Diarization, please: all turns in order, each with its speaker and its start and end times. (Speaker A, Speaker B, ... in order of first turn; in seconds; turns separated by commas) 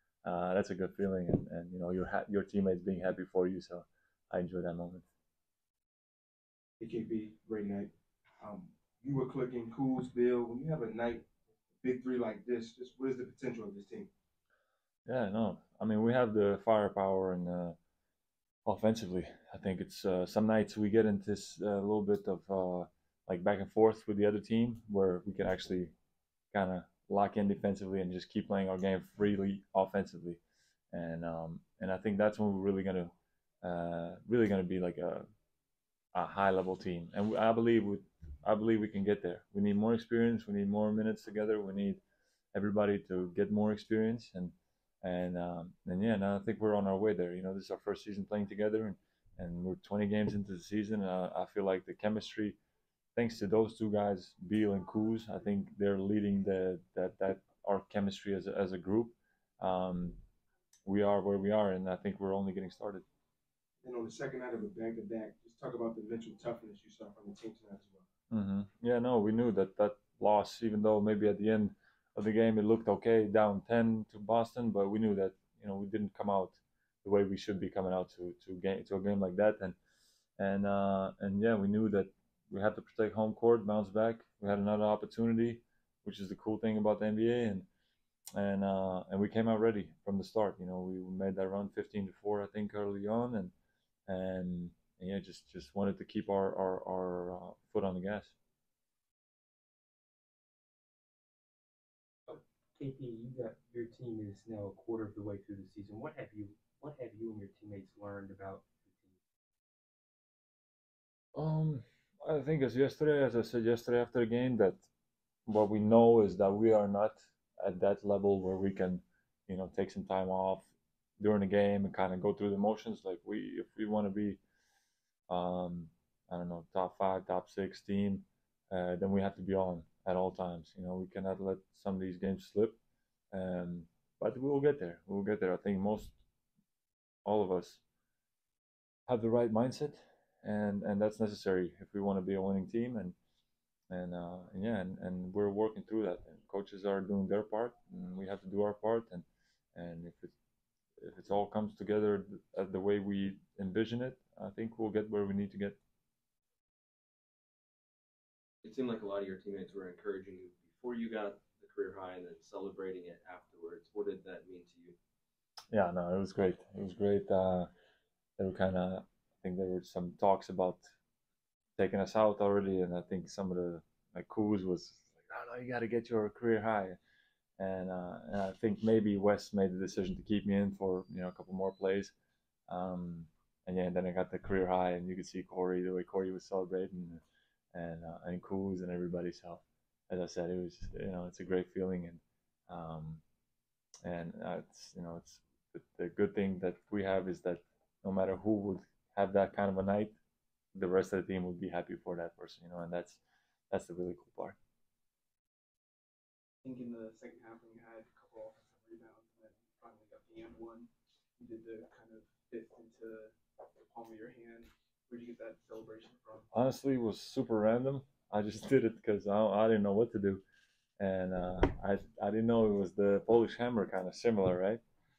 Speaker A: 0.2-5.1, Speaker B: 6.8-11.3, Speaker B: 11.8-14.1, Speaker A: 15.1-17.8, Speaker A: 18.7-25.9, Speaker A: 26.5-30.4, Speaker A: 30.9-35.3, Speaker A: 36.1-42.0, Speaker A: 42.5-52.6, Speaker A: 53.1-60.2, Speaker A: 60.9-63.0, Speaker B: 63.8-68.0, Speaker A: 68.3-79.8, Speaker A: 80.4-87.7, Speaker A: 88.4-93.5, Speaker A: 94.1-98.3, Speaker C: 102.3-109.2, Speaker A: 111.3-114.9, Speaker A: 115.5-124.4, Speaker A: 125.3-132.8, Speaker A: 133.3-136.2, Speaker A: 137.2-137.8, Speaker A: 139.1-143.2, Speaker A: 143.9-149.2, Speaker A: 149.8-150.3, Speaker A: 151.0-155.8, Speaker D: 158.7-164.9, Speaker A: 165.7-167.7, Speaker A: 168.4-170.9, Speaker A: 171.8-177.0, Speaker A: 177.6-182.1, Speaker A: 182.7-187.2, Speaker A: 187.7-193.2, Speaker A: 194.0-200.2, Speaker A: 200.7-203.2, Speaker A: 203.7-204.6, Speaker E: 206.6-216.4, Speaker A: 216.5-220.4, Speaker A: 221.0-224.8